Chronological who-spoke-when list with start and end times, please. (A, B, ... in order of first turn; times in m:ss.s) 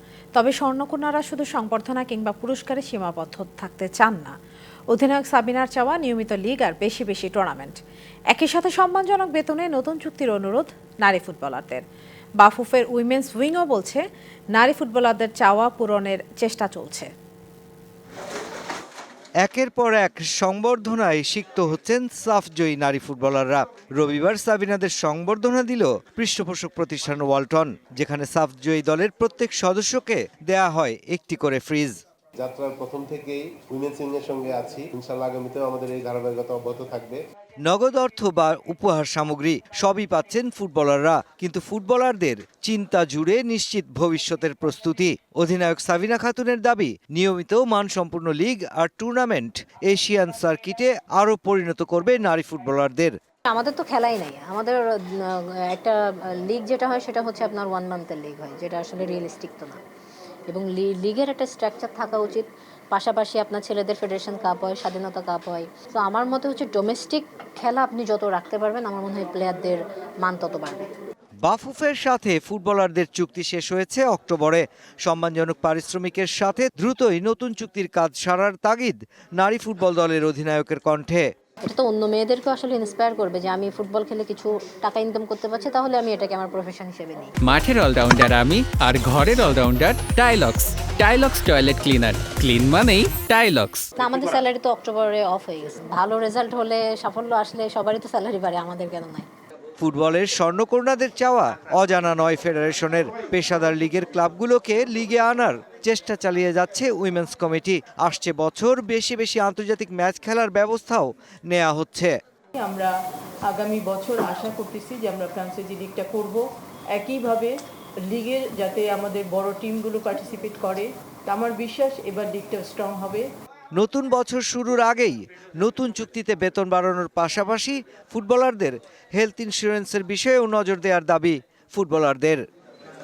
0:00.3-0:04.3 A
0:04.9-0:07.8 A
0:08.3-0:11.8 A
0:12.4-0:17.1 A
0:19.4-0:32.0 B
0:32.4-0:37.2 C
0:37.6-0:53.2 B
0:53.5-0:59.8 D
1:00.5-1:10.8 D
1:11.4-1:21.3 B
1:21.6-1:27.3 D
1:27.4-1:33.9 E
1:34.0-1:39.3 D
1:39.8-1:52.1 B
1:52.5-1:52.9 F
1:53.5-2:03.2 F
2:03.7-2:12.4 B